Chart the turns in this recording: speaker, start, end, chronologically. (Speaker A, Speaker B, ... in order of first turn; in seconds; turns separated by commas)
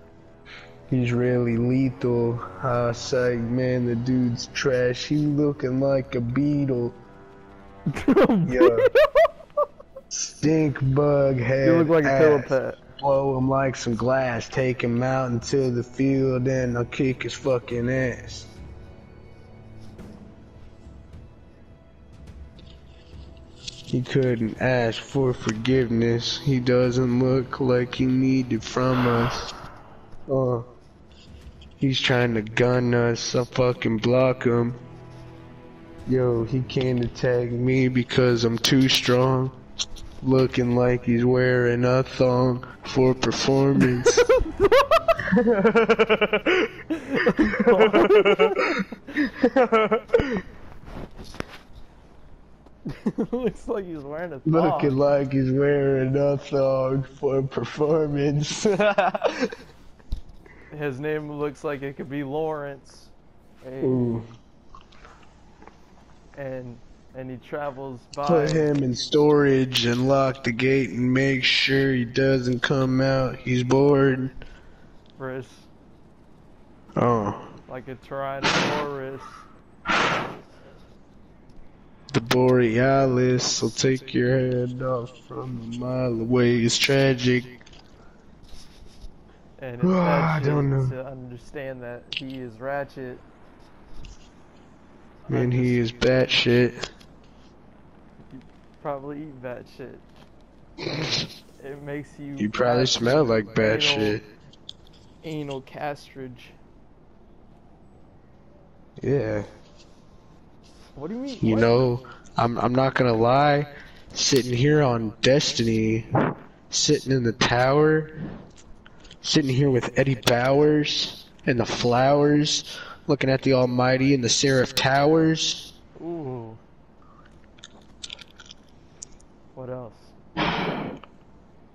Speaker A: 0.9-7.0, Speaker B: 7.9-9.3, Speaker A: 8.4-8.9, Speaker A: 10.1-18.5, Speaker B: 11.6-12.8, Speaker A: 23.9-29.5, Speaker A: 30.3-30.7, Speaker A: 31.8-34.8, Speaker A: 36.0-39.6, Speaker A: 40.2-44.3, Speaker B: 44.2-45.1, Speaker A: 45.2-50.4, Speaker B: 47.0-48.8, Speaker B: 52.9-54.9, Speaker A: 54.5-59.5, Speaker B: 60.7-64.4, Speaker A: 63.8-64.2, Speaker B: 66.3-68.7, Speaker A: 68.2-74.3, Speaker B: 75.2-75.7, Speaker A: 77.0-77.5, Speaker B: 77.7-79.4, Speaker A: 82.1-87.6, Speaker B: 89.6-93.2, Speaker A: 89.8-90.9, Speaker B: 95.2-96.3, Speaker A: 95.3-96.9, Speaker B: 98.3-100.0, Speaker B: 101.6-104.2, Speaker A: 102.4-104.2, Speaker B: 105.2-106.5, Speaker A: 109.0-109.5, Speaker B: 110.9-111.8, Speaker A: 111.4-116.1, Speaker A: 116.7-118.1, Speaker A: 119.2-125.7, Speaker B: 126.0-126.6, Speaker B: 129.5-130.2